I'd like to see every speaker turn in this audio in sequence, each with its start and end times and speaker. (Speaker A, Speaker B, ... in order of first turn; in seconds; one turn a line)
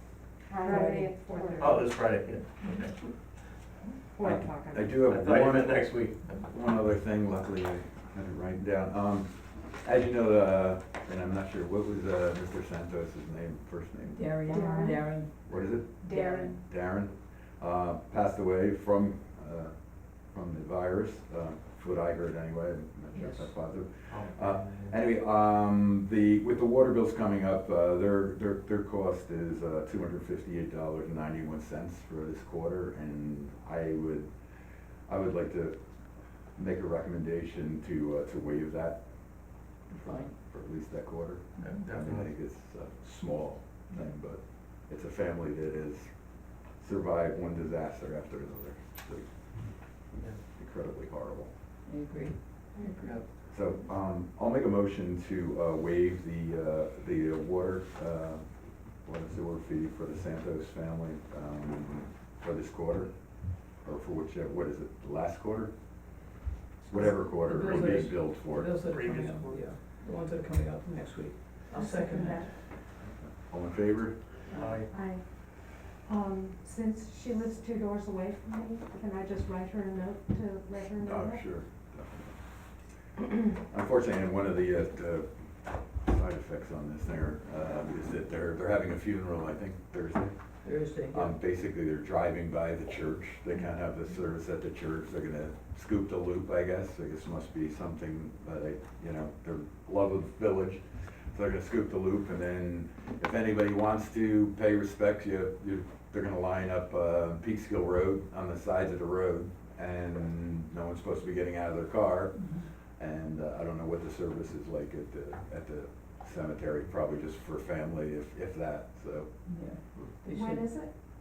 Speaker A: 0.5-1.9
Speaker B: 0.6-1.7
Speaker C: 1.6-2.5
Speaker B: 2.6-3.2
Speaker A: 4.1-4.9
Speaker D: 4.2-14.4
Speaker C: 5.0-6.5
Speaker B: 14.2-16.6
Speaker A: 14.5-15.2
Speaker D: 15.5-34.3
Speaker A: 16.0-16.6
Speaker A: 23.2-23.5
Speaker C: 24.1-24.9
Speaker D: 35.1-35.8
Speaker D: 36.5-39.0
Speaker B: 39.9-40.4
Speaker D: 40.0-46.1
Speaker C: 41.6-42.3
Speaker D: 46.8-49.3
Speaker D: 50.5-51.5
Speaker B: 51.9-53.1
Speaker C: 53.0-53.2
Speaker D: 53.5-58.5
Speaker D: 59.0-65.7
Speaker D: 66.9-68.7
Speaker B: 67.0-72.5
Speaker C: 67.7-68.2
Speaker C: 68.8-69.6
Speaker A: 71.7-72.5
Speaker D: 73.5-74.2
Speaker B: 74.5-74.8
Speaker C: 74.5-74.9
Speaker A: 74.9-81.4
Speaker D: 81.0-82.4
Speaker D: 83.6-85.3
Speaker D: 85.9-90.4
Speaker B: 90.6-91.3
Speaker D: 91.1-119.3
Speaker B: 112.4-112.7
Speaker B: 119.5-120.7
Speaker A: 120.3-120.9